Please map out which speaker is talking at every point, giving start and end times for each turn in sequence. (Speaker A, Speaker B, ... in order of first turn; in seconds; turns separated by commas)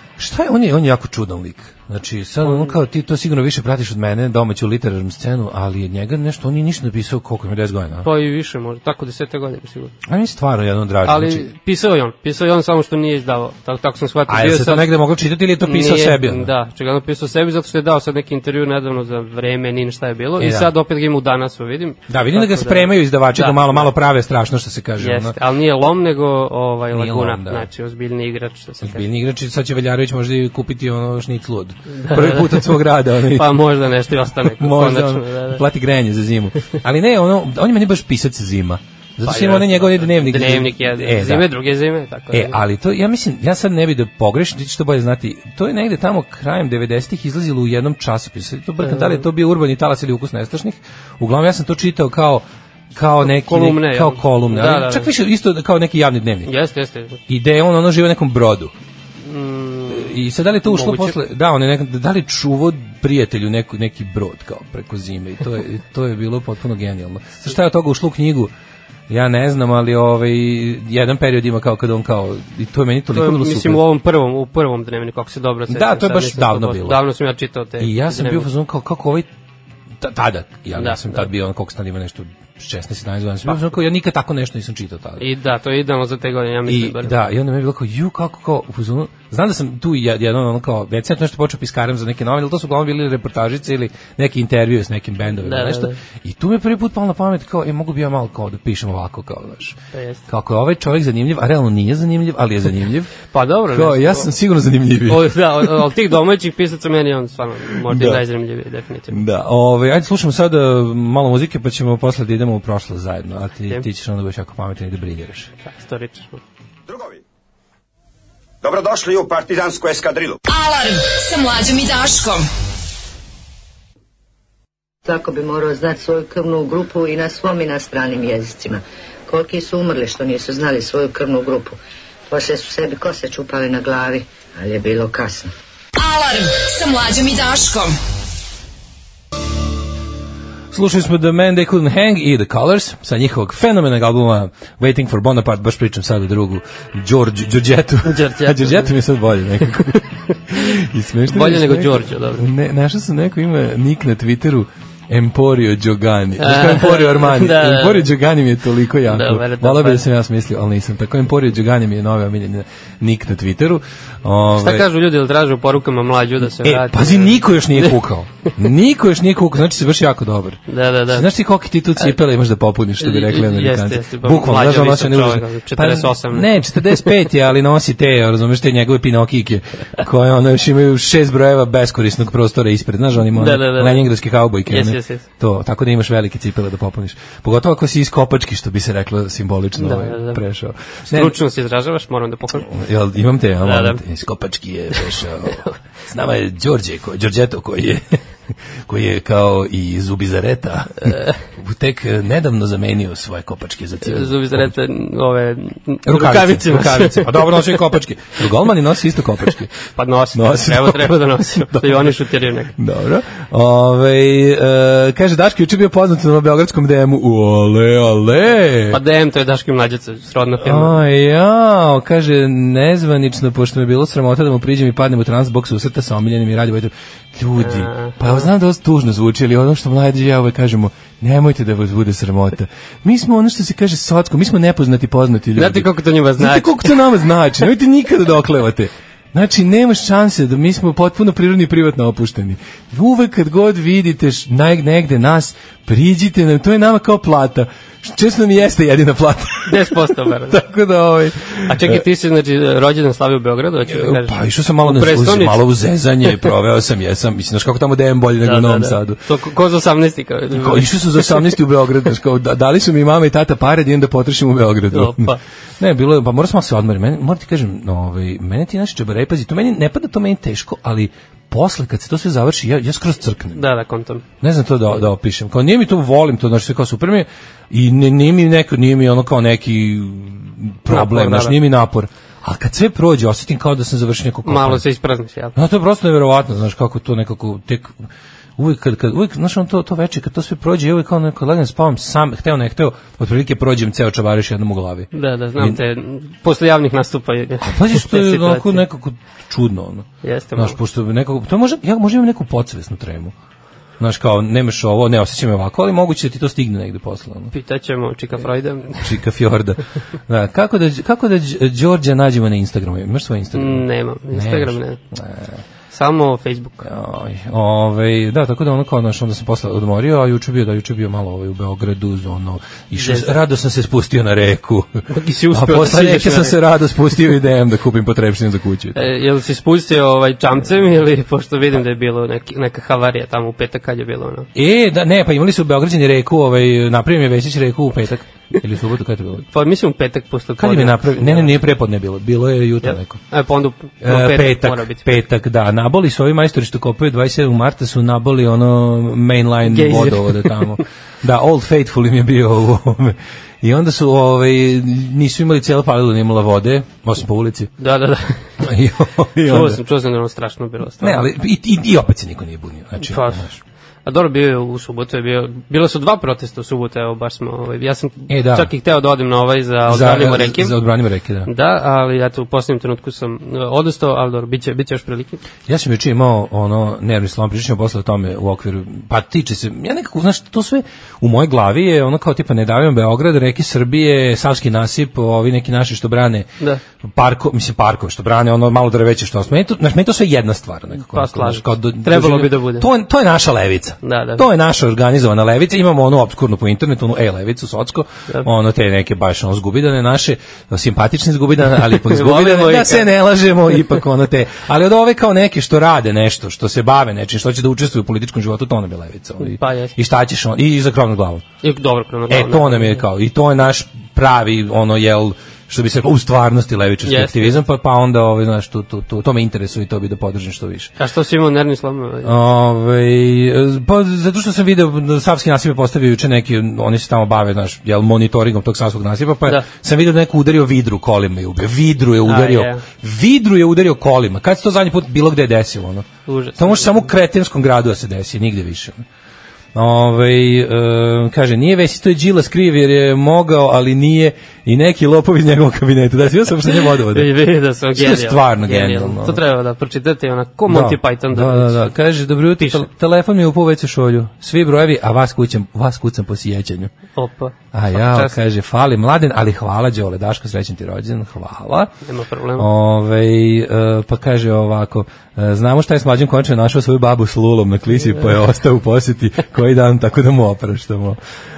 Speaker A: 0.2-8.1, Speaker B: 2.4-2.8, Speaker B: 8.0-9.9, Speaker A: 10.1-11.5, Speaker B: 11.1-14.9, Speaker A: 14.3-16.5, Speaker B: 15.6-23.9, Speaker A: 20.4-20.7, Speaker A: 22.1-25.4, Speaker B: 25.0-29.1, Speaker A: 26.9-27.7, Speaker A: 28.8-33.6, Speaker B: 31.9-32.8, Speaker B: 33.3-35.6, Speaker A: 34.5-41.5, Speaker B: 39.2-42.6, Speaker A: 42.3-56.5, Speaker B: 48.8-49.2, Speaker B: 53.2-55.1, Speaker B: 56.5-57.2, Speaker A: 57.3-58.7, Speaker B: 59.2-60.1, Speaker A: 59.9-68.5, Speaker B: 60.6-61.2, Speaker A: 69.1-73.8, Speaker B: 73.1-78.5, Speaker A: 75.7-77.0, Speaker A: 77.8-79.3, Speaker A: 80.0-85.2, Speaker B: 80.8-81.3, Speaker B: 85.2-87.2, Speaker A: 86.7-99.8, Speaker B: 95.4-96.0, Speaker B: 99.9-100.2, Speaker A: 100.3-103.1, Speaker B: 103.3-104.3, Speaker A: 103.7-105.7, Speaker B: 105.1-109.2, Speaker A: 107.9-108.2, Speaker A: 109.1-115.5, Speaker B: 115.6-116.4, Speaker C: 116.9-117.2, Speaker C: 118.6-120.4, Speaker D: 120.5-122.5, Speaker E: 125.0-131.8, Speaker E: 132.3-135.5, Speaker D: 136.0-138.0, Speaker A: 140.7-164.9, Speaker B: 148.0-148.9, Speaker B: 149.9-150.4, Speaker B: 151.3-152.5, Speaker B: 156.4-158.1, Speaker B: 159.1-160.1, Speaker B: 164.6-168.0, Speaker A: 166.5-191.3, Speaker B: 170.7-171.3, Speaker B: 173.0-177.1, Speaker B: 183.3-184.1, Speaker B: 184.7-185.2, Speaker B: 189.8-190.4, Speaker B: 191.1-192.7, Speaker A: 192.6-198.2, Speaker B: 193.6-194.0, Speaker A: 198.9-204.8, Speaker B: 201.1-201.4, Speaker B: 204.0-207.8, Speaker A: 206.1-209.7, Speaker B: 209.9-212.8, Speaker A: 210.3-212.2, Speaker A: 212.8-219.0, Speaker B: 218.9-221.0, Speaker A: 220.6-249.9, Speaker B: 227.6-228.5, Speaker B: 235.6-237.0, Speaker B: 249.7-250.6, Speaker A: 250.5-252.0, Speaker B: 251.7-255.7, Speaker A: 253.9-259.2, Speaker B: 258.4-261.5, Speaker A: 260.5-273.6, Speaker B: 264.9-265.4, Speaker B: 273.6-274.2, Speaker A: 274.4-284.9, Speaker B: 280.9-281.6, Speaker B: 284.5-285.6, Speaker A: 285.6-288.0, Speaker A: 288.6-295.8, Speaker B: 295.1-298.8, Speaker A: 297.6-303.3, Speaker B: 300.2-300.8, Speaker A: 304.0-307.5, Speaker B: 307.5-309.1, Speaker A: 309.0-315.6, Speaker B: 313.5-315.0, Speaker B: 315.9-316.9, Speaker A: 316.8-329.0, Speaker B: 323.0-323.4, Speaker B: 325.1-326.6, Speaker B: 328.9-334.5, Speaker A: 334.6-339.4, Speaker B: 339.5-341.6, Speaker A: 340.6-343.2, Speaker B: 342.8-345.2, Speaker A: 344.0-357.7, Speaker B: 349.7-350.8, Speaker B: 357.8-358.5, Speaker A: 358.6-359.8, Speaker B: 359.4-361.2, Speaker A: 361.0-363.6, Speaker B: 363.0-363.4, Speaker B: 364.1-370.8, Speaker A: 368.3-368.7, Speaker A: 369.9-371.5, Speaker B: 371.5-375.4, Speaker A: 375.7-386.5, Speaker A: 387.0-411.4, Speaker B: 391.0-392.9, Speaker B: 394.0-394.4, Speaker B: 401.9-403.1, Speaker B: 409.4-409.9, Speaker B: 411.6-413.0, Speaker A: 412.3-420.9, Speaker B: 417.1-417.6, Speaker B: 421.0-422.3, Speaker A: 422.2-439.1, Speaker B: 432.2-432.8, Speaker B: 436.3-437.0, Speaker A: 439.8-447.3, Speaker B: 447.1-451.9, Speaker A: 447.9-449.4, Speaker A: 450.7-456.9, Speaker B: 452.6-452.9, Speaker B: 457.2-458.4, Speaker A: 457.7-461.9, Speaker B: 462.1-462.7, Speaker A: 462.6-471.2